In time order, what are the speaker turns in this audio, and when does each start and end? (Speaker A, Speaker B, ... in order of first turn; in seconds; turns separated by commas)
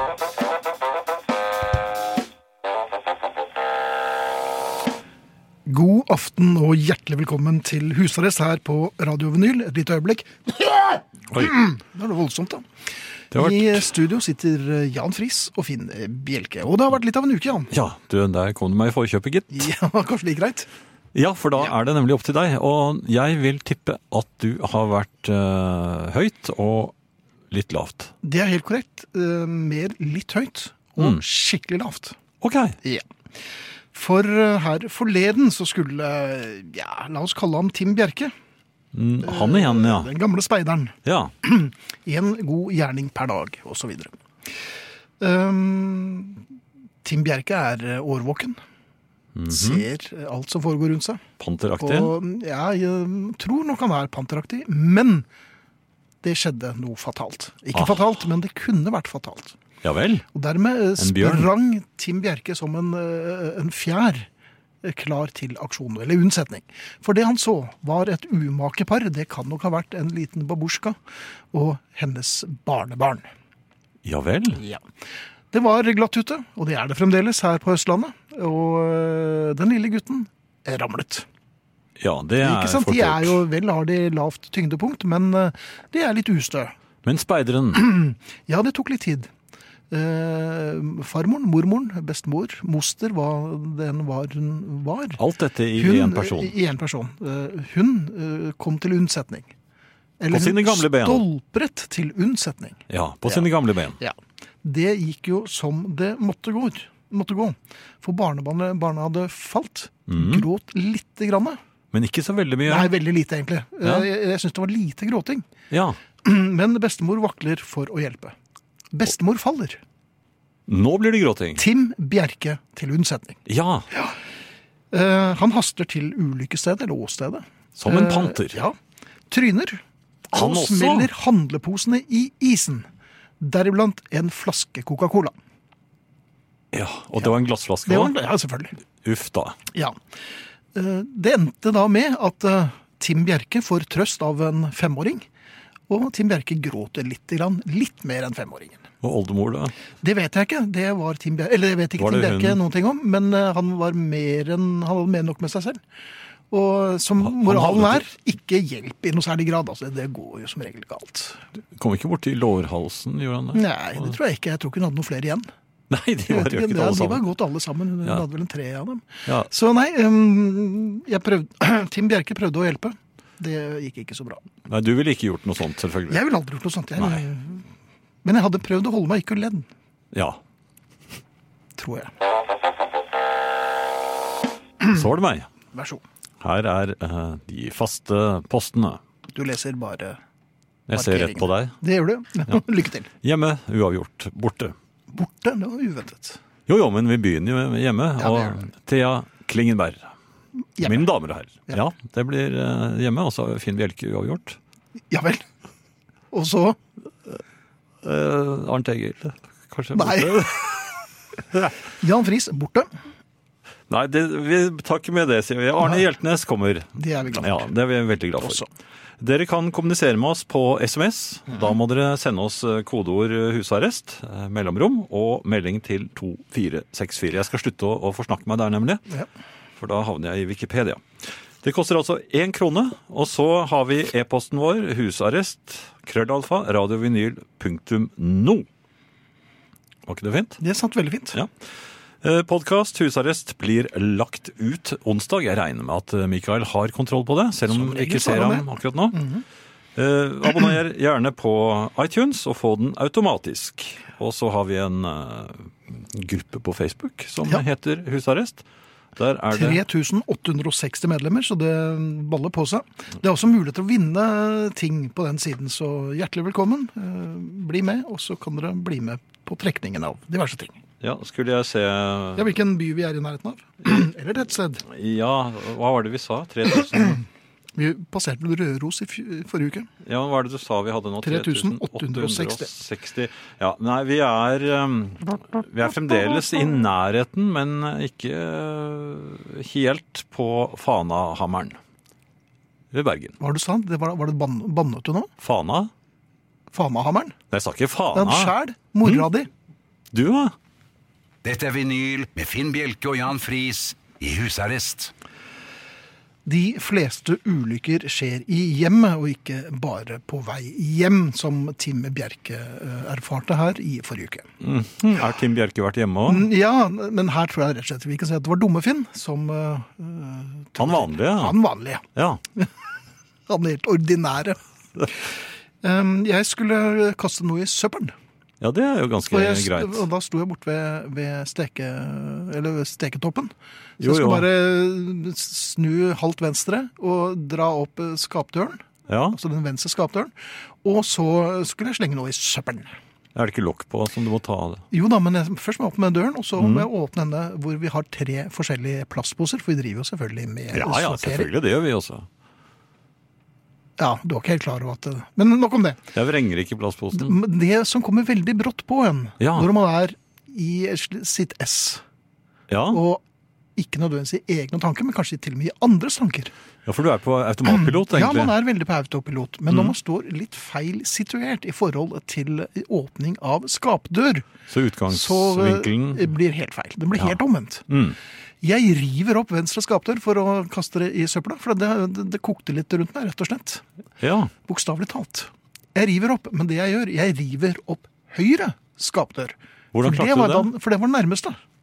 Speaker A: 5.7-12.7, Speaker B: 11.3-11.6, Speaker B: 13.3-13.9, Speaker A: 13.3-17.7, Speaker B: 17.7-19.7, Speaker A: 19.5-20.7, Speaker B: 21.1-26.9, Speaker B: 27.5-28.1, Speaker A: 28.2-32.2, Speaker B: 31.0-31.2, Speaker B: 32.4-32.7, Speaker A: 33.9-38.3, Speaker B: 38.9-40.1, Speaker A: 39.2-44.1, Speaker B: 41.0-41.3, Speaker A: 45.2-46.4, Speaker A: 47.0-48.6, Speaker B: 49.3-49.8, Speaker A: 49.5-51.2, Speaker B: 51.4-52.1, Speaker A: 51.8-55.2, Speaker A: 56.2-59.6, Speaker B: 57.7-58.0, Speaker B: 59.8-60.2, Speaker A: 60.3-64.3, Speaker B: 61.0-61.5, Speaker A: 64.8-71.0, Speaker A: 71.5-73.2, Speaker B: 74.0-74.6, Speaker A: 74.5-74.8, Speaker A: 75.5-81.3, Speaker B: 82.0-83.4, Speaker A: 82.4-86.7, Speaker B: 87.0-87.8, Speaker A: 87.7-89.3, Speaker A: 89.9-95.2, Speaker B: 95.2-96.5, Speaker A: 95.8-99.5, Speaker A: 100.2-103.5, Speaker B: 100.3-101.2, Speaker B: 102.9-104.0, Speaker A: 104.0-111.6, Speaker B: 110.1-110.5, Speaker B: 111.9-112.9, Speaker A: 112.7-115.5, Speaker B: 113.8-114.1, Speaker B: 115.7-116.0, Speaker A: 116.2-118.3, Speaker A: 118.9-119.8, Speaker B: 120.7-121.6, Speaker A: 121.5-123.4, Speaker B: 123.5-123.8, Speaker A: 123.9-124.2, Speaker A: 124.9-128.8, Speaker B: 127.8-128.6, Speaker A: 129.3-132.9, Speaker B: 130.3-131.1, Speaker A: 133.4-135.3, Speaker B: 136.7-138.2, Speaker A: 137.8-138.7, Speaker B: 139.0-139.6, Speaker A: 139.7-140.0, Speaker A: 140.7-145.2, Speaker A: 145.9-148.8, Speaker B: 149.0-149.7, Speaker A: 150.0-155.8, Speaker B: 152.0-152.6, Speaker A: 156.5-161.4, Speaker B: 157.2-158.1, Speaker B: 161.8-164.1, Speaker A: 163.5-165.5, Speaker B: 165.9-167.2, Speaker A: 166.3-174.4, Speaker B: 174.7-176.2, Speaker A: 176.1-177.7, Speaker B: 177.0-177.2, Speaker A: 178.2-179.7, Speaker B: 180.1-180.4, Speaker A: 181.8-182.1, Speaker B: 184.8-185.5, Speaker A: 185.7-186.0, Speaker B: 186.4-189.0, Speaker A: 189.3-190.2, Speaker B: 190.9-191.8, Speaker A: 190.9-193.1, Speaker B: 193.2-194.7, Speaker A: 195.1-196.4, Speaker B: 196.7-200.1, Speaker A: 198.2-198.6, Speaker A: 200.8-201.1, Speaker B: 200.8-204.6, Speaker A: 205.1-205.4, Speaker A: 206.3-206.8, Speaker B: 208.0-211.7, Speaker A: 209.9-210.7, Speaker A: 212.0-212.9, Speaker B: 213.9-218.6, Speaker A: 217.0-217.7, Speaker A: 218.4-218.7, Speaker B: 219.2-229.0, Speaker B: 229.8-238.7, Speaker B: 240.1-240.6, Speaker A: 240.6-241.4, Speaker B: 242.2-249.2, Speaker A: 247.7-249.4, Speaker B: 249.9-258.6, Speaker B: 259.1-259.8, Speaker A: 259.5-270.8, Speaker B: 271.0-272.5, Speaker A: 272.4-274.8, Speaker B: 274.9-277.2, Speaker A: 277.8-279.9, Speaker B: 280.0-291.8, Speaker A: 281.2-282.7, Speaker B: 292.9-293.4, Speaker A: 293.4-295.3, Speaker B: 295.4-295.9, Speaker A: 296.7-297.3, Speaker B: 297.5-299.3, Speaker A: 298.1-299.5, Speaker B: 300.1-300.5, Speaker C: 301.4-305.1, Speaker A: 306.4-314.5, Speaker B: 314.6-316.5, Speaker A: 316.2-322.7, Speaker B: 320.8-321.6, Speaker A: 323.5-328.1, Speaker B: 328.6-330.0, Speaker A: 329.3-340.3, Speaker B: 334.0-334.4, Speaker B: 339.1-339.4, Speaker A: 340.8-342.9, Speaker B: 343.3-344.8, Speaker A: 344.9-351.5, Speaker B: 346.6-346.9, Speaker B: 350.7-352.2, Speaker A: 354.0-356.0, Speaker B: 356.1-357.4, Speaker A: 357.1-362.0, Speaker B: 359.4-359.7, Speaker B: 362.7-363.0, Speaker A: 362.9-363.2, Speaker A: 363.8-366.5, Speaker B: 366.9-368.5, Speaker A: 367.6-374.5, Speaker B: 369.7-369.9, Speaker B: 374.7-376.3, Speaker A: 375.1-377.9, Speaker B: 377.9-378.2, Speaker A: 378.6-383.8, Speaker B: 384.2-384.5, Speaker A: 384.6-391.6, Speaker B: 389.9-390.7